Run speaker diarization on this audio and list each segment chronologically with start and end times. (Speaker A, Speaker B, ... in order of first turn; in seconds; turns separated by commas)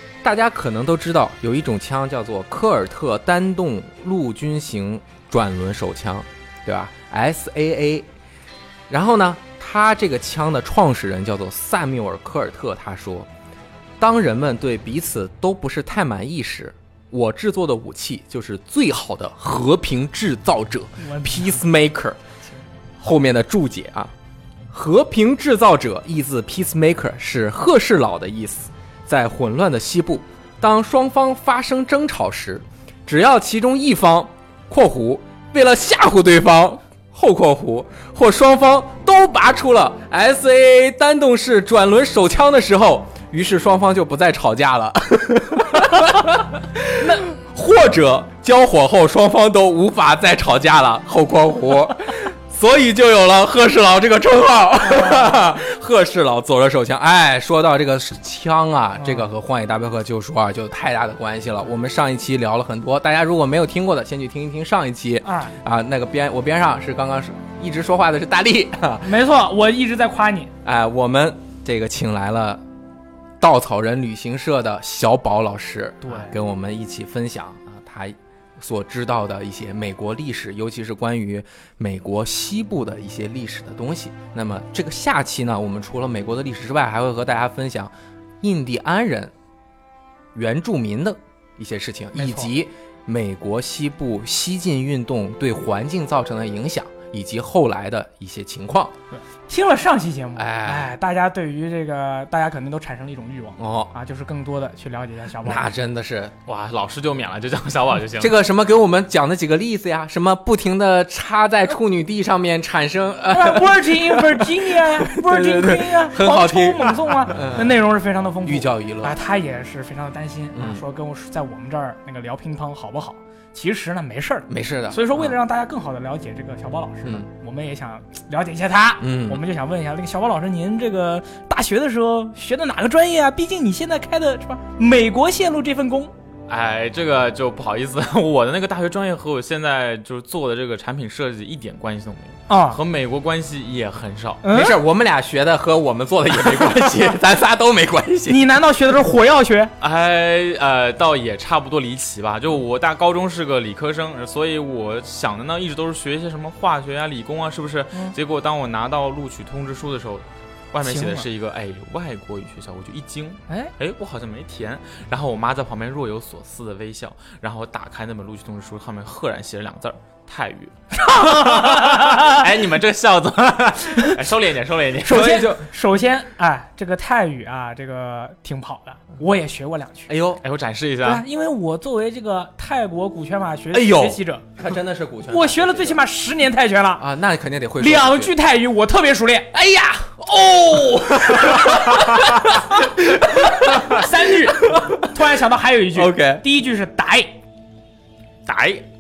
Speaker A: 0.2-8.1, Speaker A: 8.9-13.3, Speaker A: 14.0-22.2, Speaker B: 21.0-21.6, Speaker A: 23.0-24.1, Speaker A: 24.7-69.2, Speaker B: 47.0-47.2, Speaker B: 54.9-55.4, Speaker B: 59.0-59.3, Speaker B: 65.2-65.5, Speaker B: 69.0-70.5, Speaker A: 70.6-72.6, Speaker A: 73.4-89.3, Speaker B: 76.0-76.4, Speaker A: 90.3-98.9, Speaker B: 92.2-92.5, Speaker B: 99.1-105.7, Speaker A: 100.4-100.9, Speaker A: 103.6-103.9, Speaker A: 105.4-106.3, Speaker C: 106.5-108.3, Speaker A: 108.2-117.8, Speaker B: 113.3-136.1, Speaker A: 118.4-119.2, Speaker A: 120.5-120.8, Speaker A: 124.5-125.4, Speaker A: 129.0-129.4, Speaker C: 136.5-144.4, Speaker B: 142.5-142.8, Speaker B: 144.4-144.8, Speaker A: 144.5-148.4, Speaker B: 148.3-149.7, Speaker C: 149.8-175.4, Speaker B: 160.8-161.3, Speaker B: 170.9-172.7, Speaker B: 175.0-180.2, Speaker A: 175.1-175.7, Speaker A: 180.1-180.4, Speaker C: 180.4-181.2, Speaker B: 181.0-184.6, Speaker A: 183.7-186.0, Speaker B: 185.3-187.1, Speaker A: 187.0-188.3, Speaker B: 187.8-189.5, Speaker A: 189.5-195.1, Speaker B: 193.5-197.4, Speaker A: 195.9-196.4, Speaker C: 198.5-198.8